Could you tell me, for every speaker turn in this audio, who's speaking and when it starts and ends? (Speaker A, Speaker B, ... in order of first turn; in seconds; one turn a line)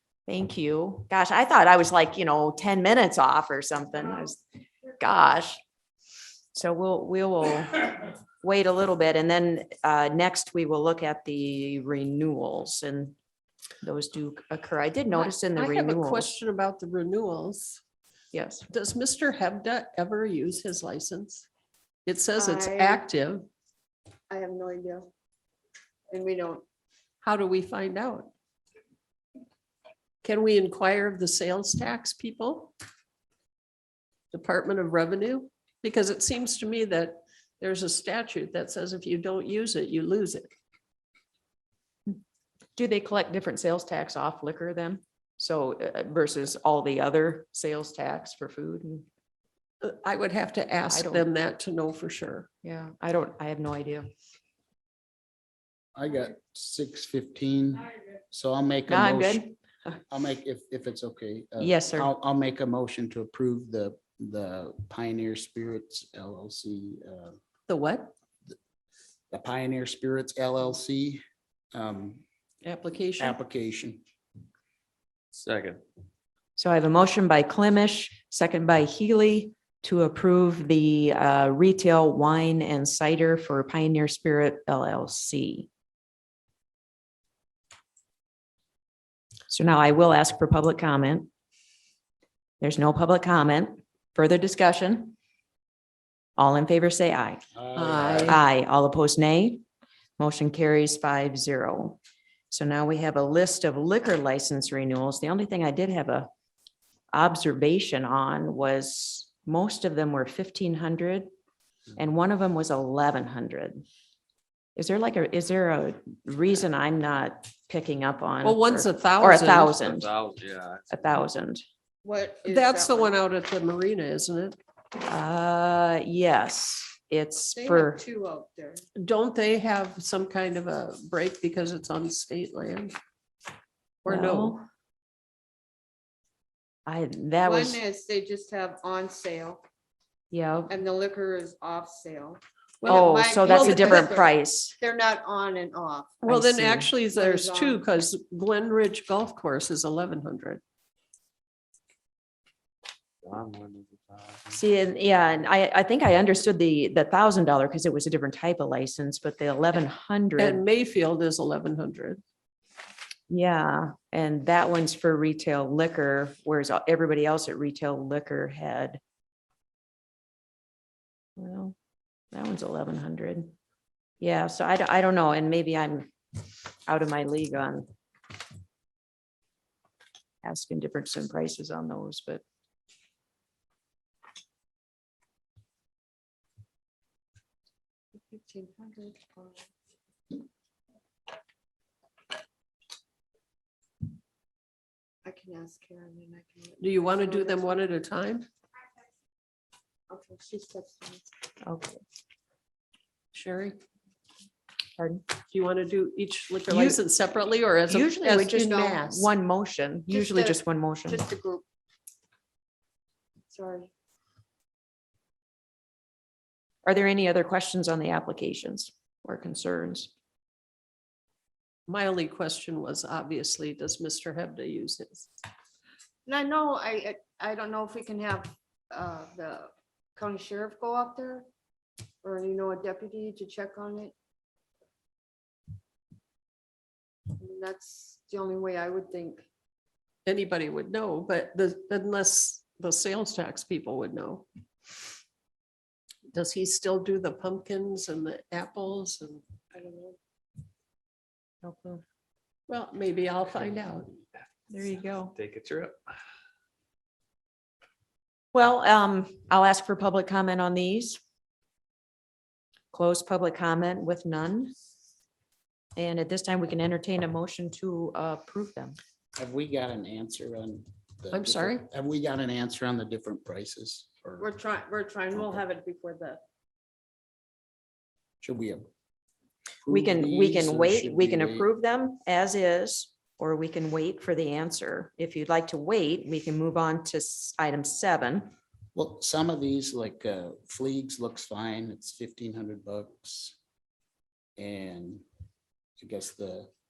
Speaker A: 0.3-4.4
Speaker A: 5.0-5.6
Speaker A: 6.5-13.1
Speaker A: 13.8-16.3
Speaker B: 15.1-17.8
Speaker A: 18.3-18.7
Speaker B: 18.7-21.5
Speaker B: 22.1-23.5
Speaker C: 22.4-23.0
Speaker C: 24.3-25.1
Speaker C: 26.1-26.6
Speaker B: 27.2-28.3
Speaker B: 30.2-32.7
Speaker B: 34.3-40.5
Speaker A: 42.8-49.0
Speaker B: 49.8-52.5
Speaker A: 50.9-51.2
Speaker A: 52.6-54.1
Speaker D: 55.9-59.4
Speaker A: 58.9-59.9
Speaker D: 60.1-67.4
Speaker A: 61.6-62.1
Speaker B: 67.7-68.1
Speaker D: 69.3-71.2
Speaker D: 71.7-72.2
Speaker B: 72.6-73.4
Speaker D: 73.2-74.0
Speaker E: 75.3-75.8
Speaker A: 76.5-85.7
Speaker A: 89.5-91.3
Speaker A: 92.6-95.1
Speaker A: 96.4-97.4
Speaker D: 97.5-98.4
Speaker B: 97.7-98.4
Speaker A: 98.1-99.6
Speaker A: 100.2-102.0
Speaker A: 102.5-106.3
Speaker A: 107.1-111.3
Speaker A: 112.0-113.8
Speaker A: 114.8-120.1
Speaker B: 118.4-119.8
Speaker E: 119.8-121.0
Speaker A: 120.9-121.6
Speaker C: 122.0-123.1
Speaker B: 122.5-124.5
Speaker A: 125.0-128.0
Speaker C: 127.5-128.8
Speaker B: 128.9-132.9
Speaker B: 134.0-134.6
Speaker A: 134.1-134.6
Speaker A: 136.9-137.8
Speaker C: 137.4-139.6
Speaker A: 140.3-140.7
Speaker C: 140.7-146.2
Speaker A: 142.8-144.7
Speaker B: 143.4-144.2
Speaker B: 146.2-150.6
Speaker A: 146.3-146.9
Speaker C: 147.1-147.8
Speaker E: 153.2-154.5
Speaker A: 154.5-160.6
Speaker B: 160.4-162.2
Speaker A: 163.3-169.0
Speaker A: 171.4-171.7
Speaker A: 172.3-173.5
Speaker A: 174.2-176.1
Speaker A: 176.8-177.9
Speaker A: 180.4-182.4
Speaker C: 188.1-189.7
Speaker C: 195.2-197.8
Speaker B: 196.8-198.4
Speaker C: 200.1-201.3
Speaker A: 201.6-202.0
Speaker B: 203.3-203.8
Speaker A: 205.0-205.2
Speaker B: 205.5-209.3
Speaker A: 206.7-207.0
Speaker A: 207.9-211.2
Speaker C: 210.1-211.6
Speaker C: 213.5-213.9
Speaker A: 216.8-220.1
Speaker B: 221.9-225.3
Speaker C: 226.2-231.4
Speaker C: 232.2-234.1
Speaker C: 237.3-239.4
Speaker B: 240.2-244.4
Speaker B: 246.3-249.4
Speaker C: 249.7-250.2
Speaker A: 251.6-252.0
Speaker B: 252.7-254.2
Speaker A: 254.7-255.3
Speaker E: 255.3-256.0
Speaker A: 258.5-261.2
Speaker A: 262.9-264.7
Speaker A: 265.9-269.0
Speaker D: 269.4-274.5
Speaker B: 271.3-271.9
Speaker C: 274.4-276.4
Speaker D: 278.4-278.9
Speaker D: 279.8-281.7
Speaker A: 279.9-288.5
Speaker D: 288.9-293.6
Speaker D: 294.6-295.2
Speaker D: 296.0-296.7